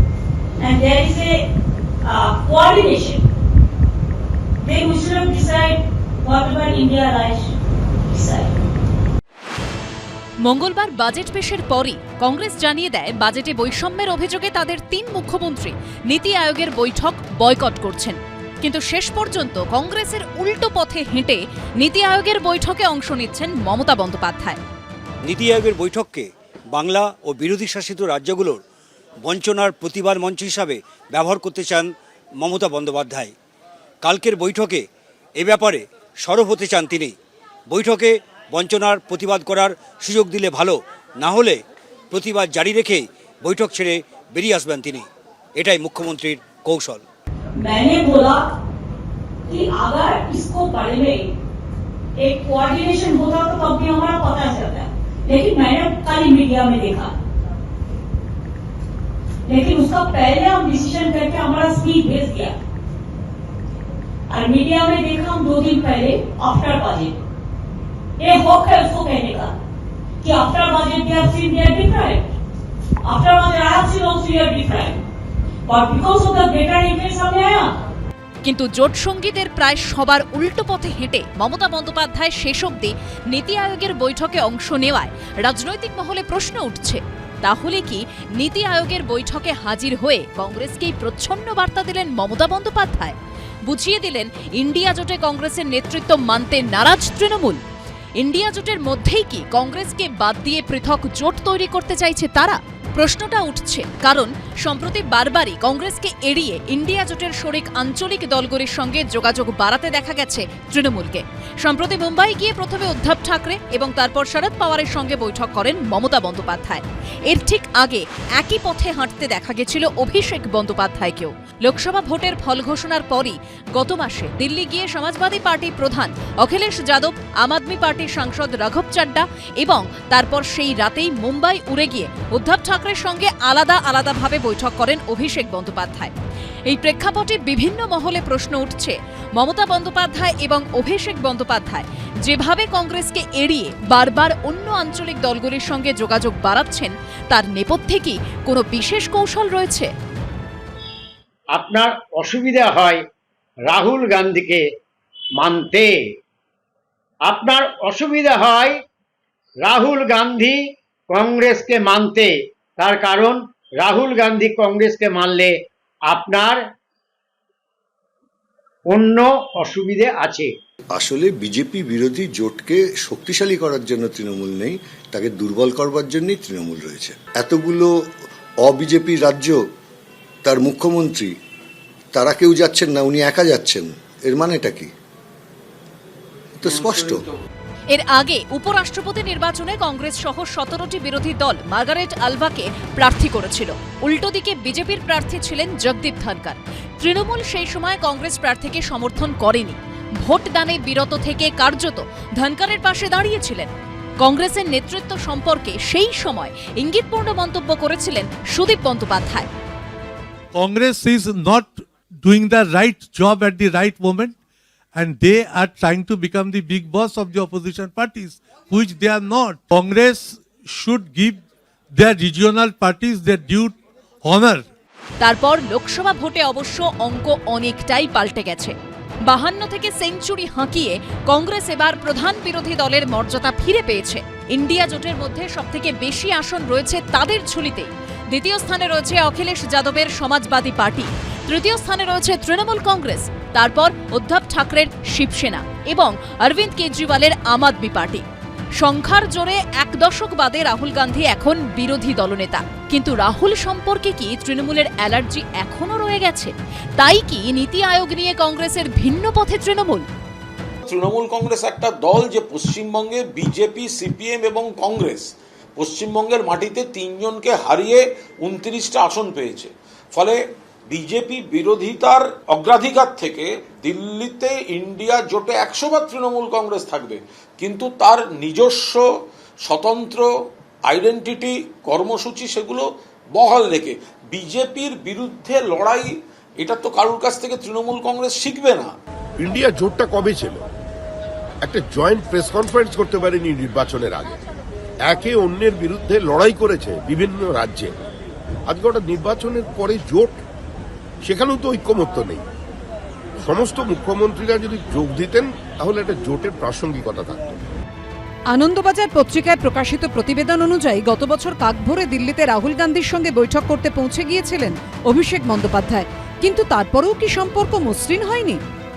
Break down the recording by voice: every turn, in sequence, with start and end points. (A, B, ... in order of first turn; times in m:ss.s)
0:00.6-0:01.4 A
0:02.0-0:03.2 A
0:04.6-0:07.5 A
0:08.1-0:08.5 A
0:10.4-0:24.6 B
0:25.2-0:28.6 C
0:29.2-0:33.3 C
0:34.0-0:34.8 C
0:35.4-0:37.1 C
0:37.7-0:41.6 C
0:42.1-0:47.0 C
0:47.6-0:48.4 A
0:49.5-0:51.2 A
0:52.2-0:57.1 A
0:59.5-1:02.5 A
1:04.3-1:07.2 A
1:08.2-1:09.5 A
1:10.2-1:12.3 A
1:13.0-1:15.0 A
1:15.7-1:17.7 A
1:18.4-1:37.6 B
1:38.2-2:16.1 B
2:16.7-2:29.9 B
2:31.5-2:33.0 D
2:33.7-2:34.6 D
2:35.4-2:35.9 D
2:37.2-2:38.7 D
2:39.6-2:40.6 D
2:41.1-2:45.5 D
2:46.1-2:46.6 D
2:48.9-2:50.5 D
2:50.9-2:57.9 E
2:58.6-2:59.6 E
3:00.4-3:01.3 E
3:02.1-3:04.9 E
3:06.6-3:07.2 E
3:07.9-3:29.5 B
3:30.5-3:34.4 F
3:34.9-3:41.4 F
3:41.9-3:44.6 F
3:45.2-4:08.2 B
4:08.8-4:20.1 B
4:20.8-4:39.0 G
4:39.6-4:40.3 G
4:40.9-4:48.9 G
4:49.4-4:50.6 H
4:51.6-4:54.4 H
4:55.0-4:57.9 H
4:58.7-5:00.4 H
5:01.2-5:02.4 H
5:03.4-5:07.4 H
5:08.5-5:18.6 I